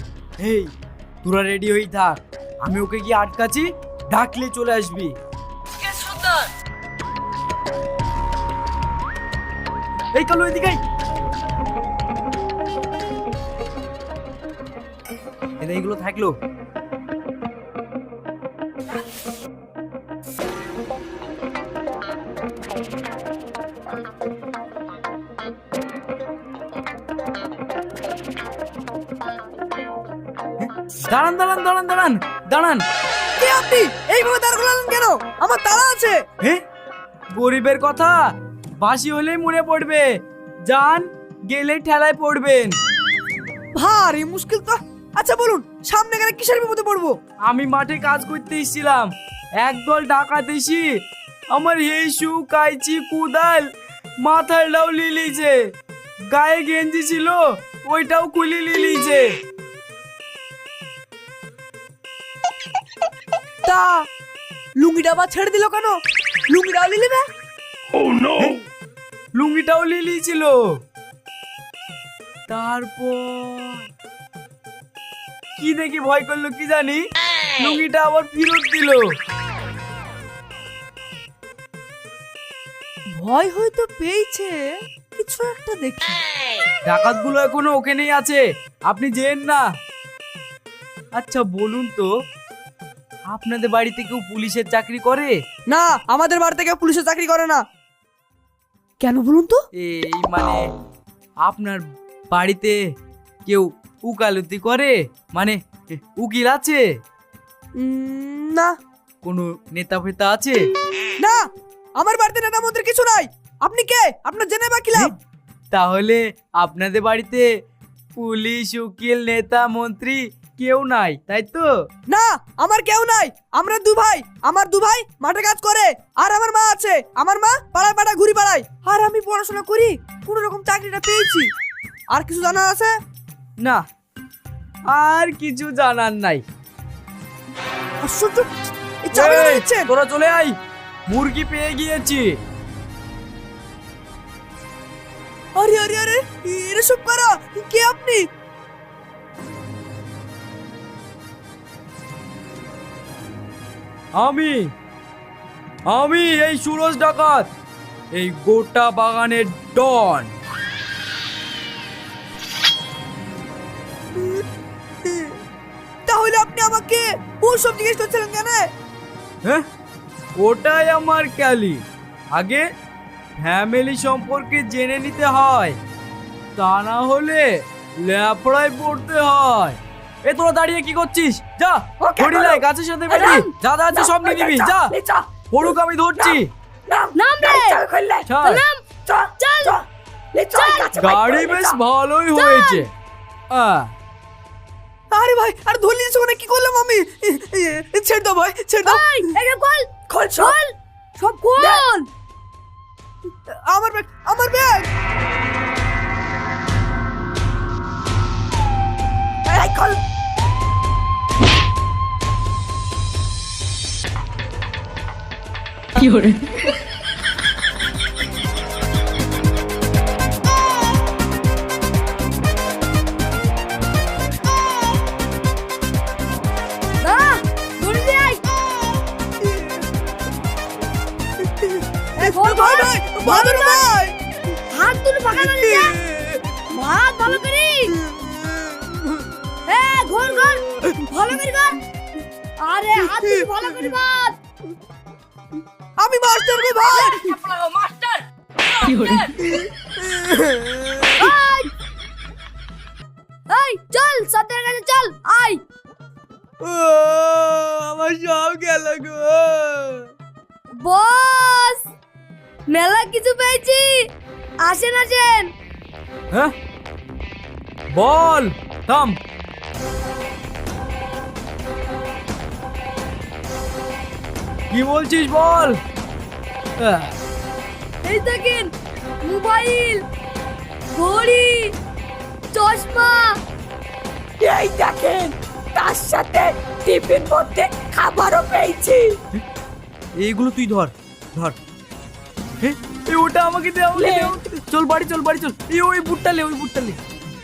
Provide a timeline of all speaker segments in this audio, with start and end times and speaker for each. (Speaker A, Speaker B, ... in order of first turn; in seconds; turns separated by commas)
Speaker A: 0.4-5.2, Speaker B: 5.8-6.5, Speaker A: 10.1-10.8, Speaker A: 15.6-16.4, Speaker A: 30.6-32.9, Speaker C: 33.4-36.2, Speaker A: 37.3-38.2, Speaker A: 38.8-42.8, Speaker C: 43.8-47.2, Speaker A: 47.5-53.7, Speaker A: 54.2-55.6, Speaker A: 56.3-59.4, Speaker C: 63.6-64.1, Speaker C: 64.8-67.3, Speaker A: 69.3-70.8, Speaker A: 72.5-73.8, Speaker A: 75.6-77.0, Speaker A: 77.6-79.1, Speaker C: 83.1-86.2, Speaker A: 86.9-89.7, Speaker A: 91.1-92.1, Speaker A: 93.3-95.4, Speaker C: 95.7-97.6, Speaker C: 99.0-99.7, Speaker A: 99.8-100.8, Speaker A: 101.4-102.9, Speaker A: 103.5-106.8, Speaker C: 107.8-108.8, Speaker A: 109.2-110.7, Speaker C: 111.2-115.2, Speaker A: 115.7-117.5, Speaker A: 118.2-121.7, Speaker C: 122.1-131.5, Speaker C: 132.1-133.0, Speaker A: 134.9-136.4, Speaker C: 138.0-138.5, Speaker C: 139.0-139.9, Speaker A: 139.1-142.4, Speaker C: 145.6-148.3, Speaker A: 154.2-154.7, Speaker A: 155.9-157.5, Speaker A: 158.1-160.3, Speaker C: 164.1-164.4, Speaker C: 165.1-165.4, Speaker C: 166.1-168.7, Speaker A: 170.4-172.7, Speaker A: 173.4-175.8, Speaker A: 176.6-184.9, Speaker D: 182.0-183.3, Speaker D: 183.9-188.4, Speaker A: 185.5-186.5, Speaker E: 187.1-187.8, Speaker A: 188.3-188.6, Speaker E: 188.4-188.8, Speaker D: 189.0-191.8, Speaker E: 189.4-189.8, Speaker E: 190.5-190.9, Speaker A: 190.9-192.9, Speaker E: 192.3-192.9, Speaker A: 193.5-193.9, Speaker C: 195.1-199.3, Speaker E: 198.8-202.1, Speaker D: 200.1-200.6, Speaker D: 201.6-201.8, Speaker C: 203.3-204.9, Speaker C: 209.5-209.8, Speaker D: 209.6-210.0, Speaker E: 227.0-228.4, Speaker C: 229.4-229.8, Speaker C: 231.5-234.2, Speaker E: 232.2-233.9, Speaker E: 234.7-235.9, Speaker C: 235.3-236.4, Speaker E: 236.7-237.9, Speaker C: 238.0-239.2, Speaker E: 239.7-241.8, Speaker E: 242.6-244.3, Speaker C: 243.0-244.0, Speaker C: 246.0-247.4, Speaker B: 247.2-249.2, Speaker C: 249.5-251.3, Speaker E: 251.2-251.7, Speaker E: 253.5-255.6, Speaker C: 256.6-260.1, Speaker E: 260.8-261.9, Speaker E: 262.7-264.1, Speaker E: 264.6-265.5, Speaker A: 267.9-269.2, Speaker A: 274.7-275.8, Speaker A: 276.8-277.1, Speaker E: 278.0-278.7, Speaker E: 279.2-280.0, Speaker E: 280.9-281.7, Speaker E: 282.5-283.4, Speaker D: 284.4-289.2, Speaker A: 290.2-291.6, Speaker A: 292.6-297.0, Speaker D: 293.9-294.4